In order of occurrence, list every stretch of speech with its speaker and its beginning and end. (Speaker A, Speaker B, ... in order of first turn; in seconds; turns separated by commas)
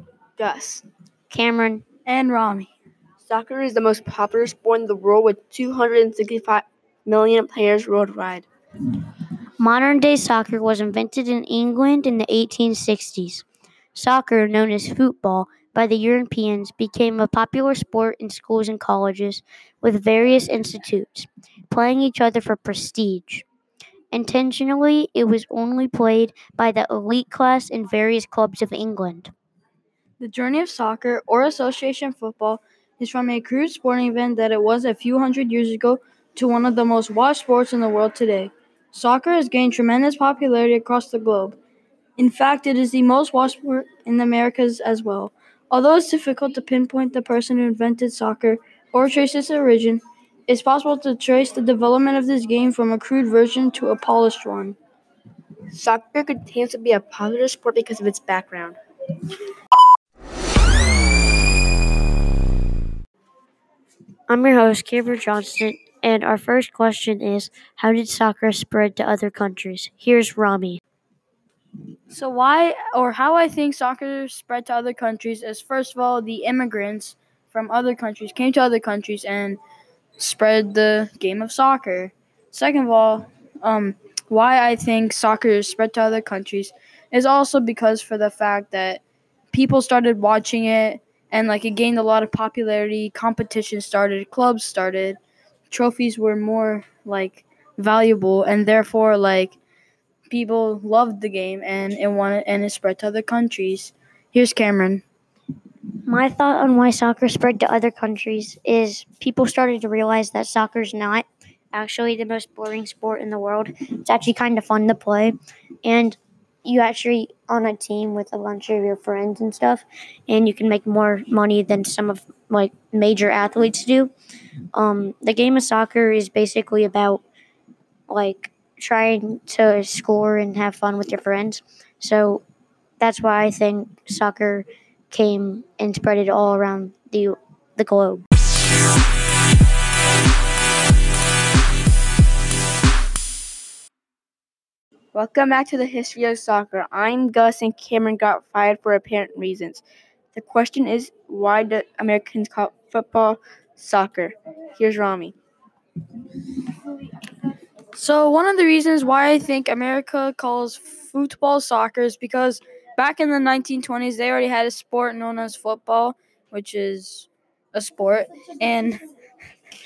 Speaker A: 0.4-0.8, Speaker B: 1.3-1.8, Speaker C: 2.1-2.7, Speaker A: 3.2-8.5, Speaker B: 9.6-23.5, Speaker B: 24.1-29.3, Speaker C: 30.2-41.6, Speaker C: 42.2-54.8, Speaker A: 55.7-58.8, Speaker B: 64.3-70.8, Speaker C: 72.1-79.6, Speaker C: 80.2-89.0, Speaker C: 89.5-95.2, Speaker C: 95.7-99.6, Speaker C: 100.3-105.0, Speaker B: 106.1-124.1, Speaker B: 124.7-127.2, Speaker B: 128.1-132.4, Speaker B: 133.0-138.2, Speaker A: 145.1-149.8, Speaker A: 150.3-155.3, Speaker C: 157.9-169.0